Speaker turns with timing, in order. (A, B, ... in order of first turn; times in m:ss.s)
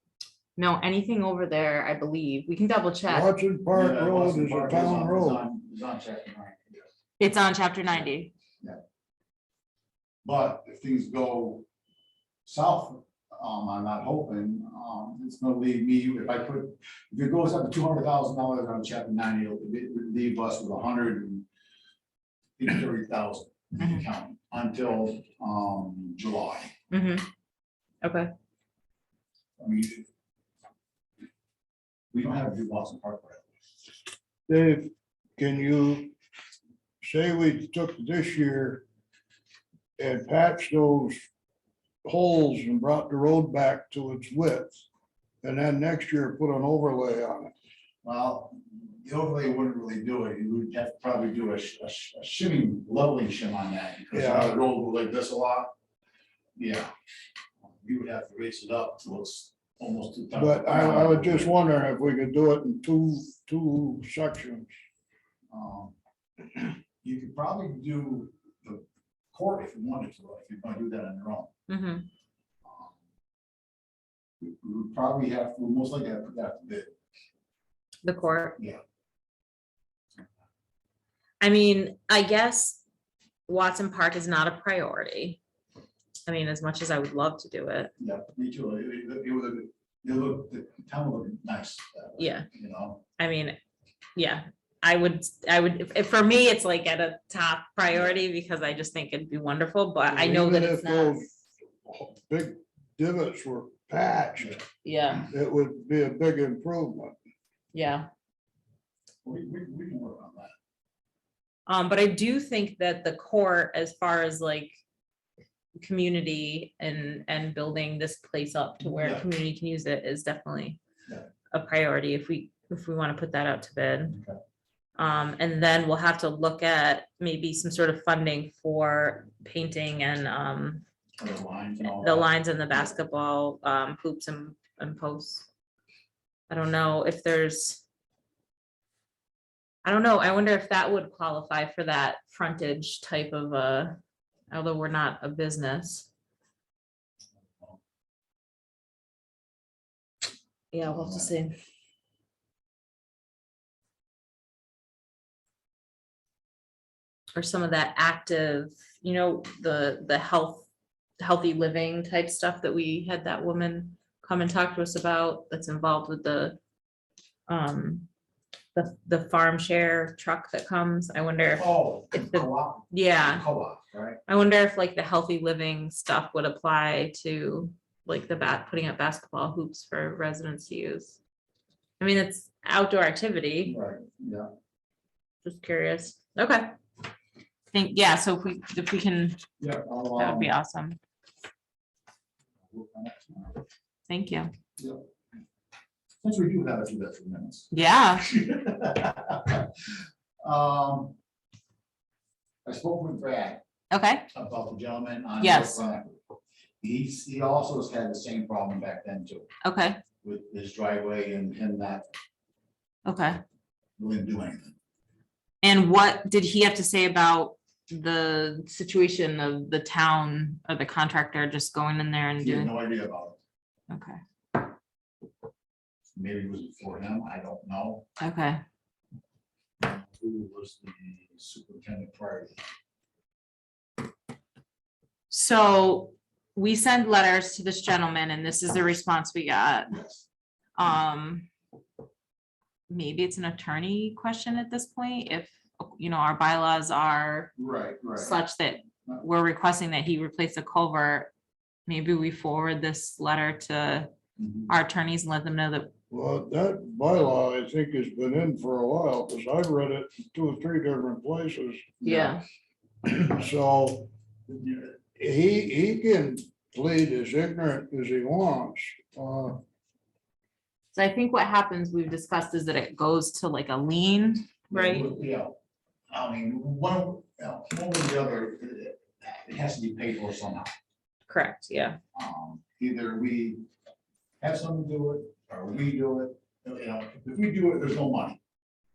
0:00.6-0:03.3 A
0:03.1-0:05.4 B
0:03.7-0:06.8 C
0:07.2-0:08.3 A
0:10.2-0:11.7 C
0:12.4-0:21.4 C
0:22.6-0:26.7 C
0:23.8-0:24.0 A
0:26.9-0:27.3 A
0:28.0-0:28.3 A
0:29.6-0:30.1 C
0:32.1-0:33.5 C
0:34.5-0:36.1 B
0:37.0-0:38.8 B
0:40.0-0:41.3 B
0:42.0-0:44.8 B
0:45.4-0:47.5 B
0:48.0-0:55.7 C
0:54.1-0:54.6 B
0:56.6-0:56.9 C
0:57.6-1:01.6 C
1:00.4-1:04.7 B
1:05.5-1:06.0 C
1:07.0-1:11.5 C
1:11.7-1:12.1 A
1:12.6-1:13.0 C
1:14.4-1:16.9 C
1:18.0-1:18.6 A
1:21.4-1:22.8 A
1:23.5-1:25.4 A
1:26.3-1:27.9 A
1:28.0-1:33.0 C
1:32.2-1:32.5 A
1:33.2-1:33.6 A
1:34.2-1:41.2 A
1:40.1-1:44.6 B
1:44.8-1:45.3 A
1:45.3-1:47.2 B
1:47.7-1:48.1 A
1:49.2-1:50.5 C
1:51.7-1:54.8 A
1:55.8-2:00.8 A
1:58.8-1:59.2 C
2:01.5-2:04.2 A
2:04.1-2:04.4 C
2:05.0-2:10.8 A
2:11.2-2:12.3 C
2:11.8-2:15.5 A
2:16.5-2:17.8 A
2:19.8-2:24.0 A
2:24.5-2:26.1 A
2:30.7-2:31.6 A
2:30.9-2:31.3 C
2:37.3-2:40.7 A
2:41.2-2:46.6 A
2:47.5-2:48.1 A
2:48.8-2:53.4 A
2:51.6-2:54.2 C
2:54.3-3:01.2 A
3:02.0-3:03.8 A
3:03.7-3:04.5 C
3:05.4-3:06.7 A
3:07.7-3:09.4 A
3:09.6-3:10.5 C
3:10.2-3:11.0 A
3:12.7-3:13.6 C
3:14.1-3:14.5 A
3:14.8-3:15.0 C
3:16.2-3:19.9 C
3:17.7-3:18.3 A
3:20.4-3:21.2 C
3:22.6-3:23.6 C
3:23.9-3:24.3 A
3:24.3-3:26.2 C
3:25.4-3:25.8 A
3:26.8-3:29.5 C
3:29.6-3:30.0 A
3:30.2-3:32.1 C
3:33.0-3:33.4 A
3:34.0-3:34.7 C
3:35.6-3:42.7 A
3:42.4-3:43.4 C
3:43.9-3:44.2 A
3:46.1-3:48.0 C
3:48.2-3:48.6 A
3:49.8-3:52.6 C
3:55.3-4:00.0 A
3:59.9-4:00.2 C
4:00.8-4:01.5 A
4:02.9-4:07.5 A
4:07.6-4:08.4 C
4:08.2-4:11.3 A
4:11.9-4:14.1 A
4:14.4-4:14.7 C
4:14.7-4:15.9 A
4:16.1-4:22.0 B
4:22.0-4:22.4 C
4:22.0-4:22.4 A
4:23.0-4:29.6 B
4:30.9-4:35.1 A
4:34.7-4:35.6 C
4:36.1-4:40.7 C
4:41.3-4:42.0 A
4:42.1-4:43.6 C
4:44.4-4:48.4 C